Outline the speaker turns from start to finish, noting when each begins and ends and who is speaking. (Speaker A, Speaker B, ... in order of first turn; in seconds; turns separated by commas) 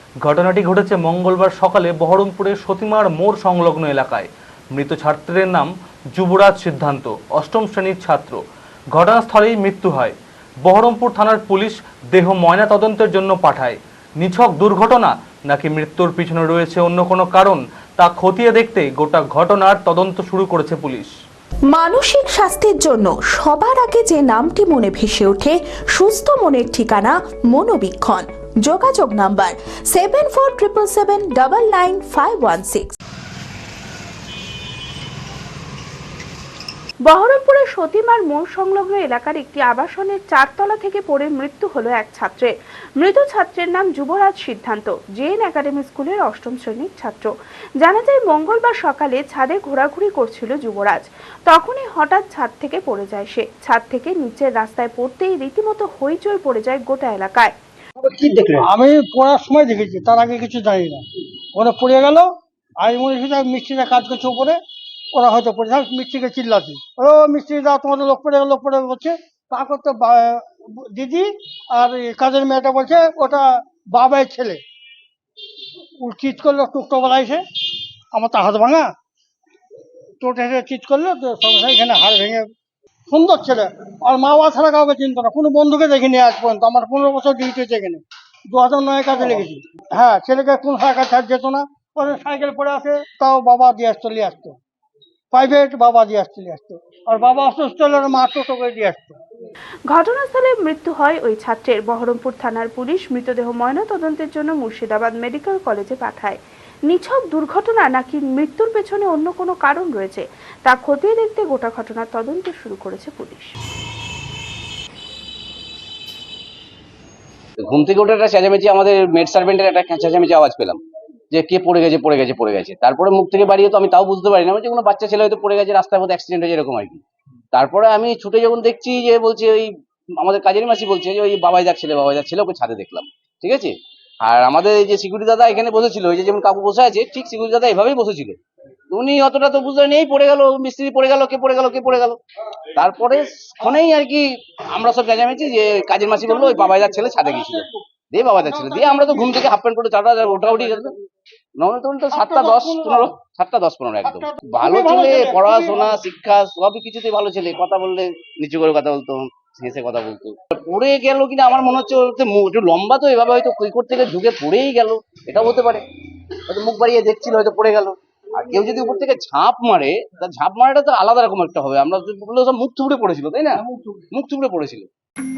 Speaker A: 0.2-8.4, Speaker A: 8.9-21.1, Speaker B: 21.7-33.0, Speaker B: 37.0-57.5, Speaker C: 58.6-61.0, Speaker C: 61.5-62.3, Speaker C: 62.8-64.6, Speaker C: 65.1-74.6, Speaker C: 76.0-77.4, Speaker C: 78.1-78.9, Speaker C: 80.2-82.5, Speaker C: 83.1-94.6, Speaker C: 95.3-99.2, Speaker B: 99.9-113.5, Speaker D: 117.6-120.8, Speaker D: 121.3-138.4, Speaker D: 138.9-142.2, Speaker D: 142.7-150.9, Speaker C: 148.7-149.1, Speaker D: 151.6-165.8, Speaker C: 152.1-152.8, Speaker C: 154.0-155.9, Speaker D: 166.4-174.9